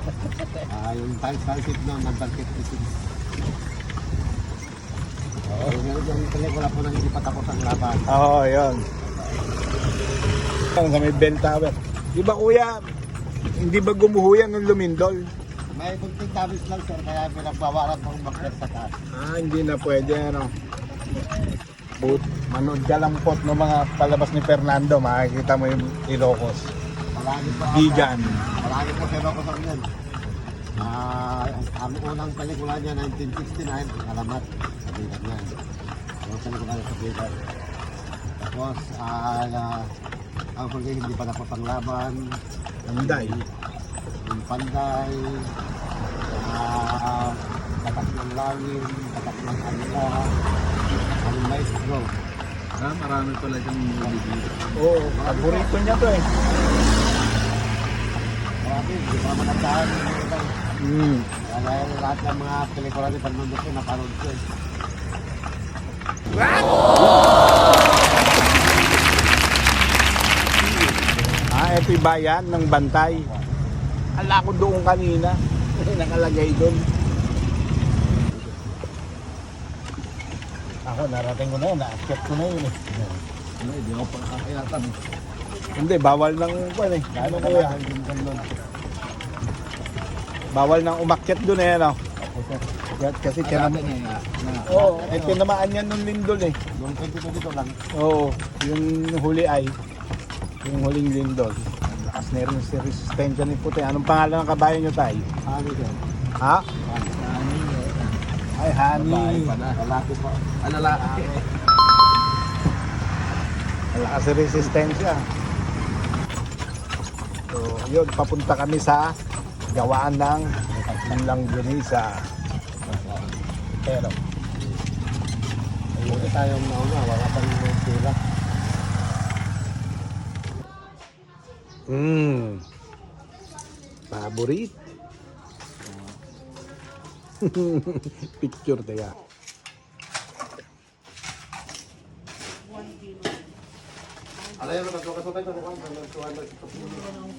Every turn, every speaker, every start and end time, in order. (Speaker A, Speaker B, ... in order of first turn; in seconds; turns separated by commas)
Speaker A: 0.7-2.9, Speaker A: 5.5-8.1, Speaker B: 8.1-8.9, Speaker B: 10.7-12.8, Speaker B: 13.6-15.3, Speaker A: 15.7-18.9, Speaker B: 19.1-20.5, Speaker B: 22.0-26.7, Speaker A: 27.1-29.9, Speaker B: 27.7-28.5, Speaker A: 30.8-35.6, Speaker A: 36.2-37.4, Speaker A: 38.4-39.9, Speaker A: 40.6-42.4, Speaker B: 42.9-43.4, Speaker A: 43.0-43.5, Speaker A: 44.2-45.4, Speaker A: 46.3-50.3, Speaker A: 51.2-52.1, Speaker C: 52.8-54.6, Speaker B: 54.8-56.3, Speaker A: 55.1-55.7, Speaker A: 58.6-60.5, Speaker B: 60.8-61.3, Speaker A: 61.5-64.4, Speaker B: 66.9-67.2, Speaker B: 71.5-73.3, Speaker A: 73.1-73.5, Speaker B: 74.2-76.8, Speaker B: 80.9-83.2, Speaker C: 83.6-85.0, Speaker B: 85.8-87.8, Speaker A: 87.1-88.5, Speaker B: 90.5-92.0, Speaker A: 92.3-92.6, Speaker B: 92.9-93.8, Speaker C: 93.4-94.8, Speaker B: 94.7-96.6, Speaker A: 94.7-95.4, Speaker A: 96.8-97.8, Speaker B: 97.9-99.8, Speaker B: 100.6-105.3, Speaker A: 105.5-106.0, Speaker B: 106.4-106.7, Speaker A: 106.8-107.2, Speaker C: 107.1-108.2, Speaker B: 108.6-109.6, Speaker C: 108.9-109.8, Speaker A: 109.8-110.4, Speaker C: 110.6-111.4, Speaker B: 113.9-115.2, Speaker B: 117.5-119.2, Speaker B: 119.7-120.5, Speaker A: 120.7-121.4, Speaker B: 121.1-122.3, Speaker A: 122.9-123.1, Speaker C: 123.0-123.3, Speaker B: 123.8-124.2, Speaker A: 126.0-128.2, Speaker B: 126.0-126.3, Speaker B: 131.9-132.7, Speaker B: 134.1-134.7, Speaker C: 135.8-136.2, Speaker B: 137.4-139.2, Speaker A: 144.6-147.1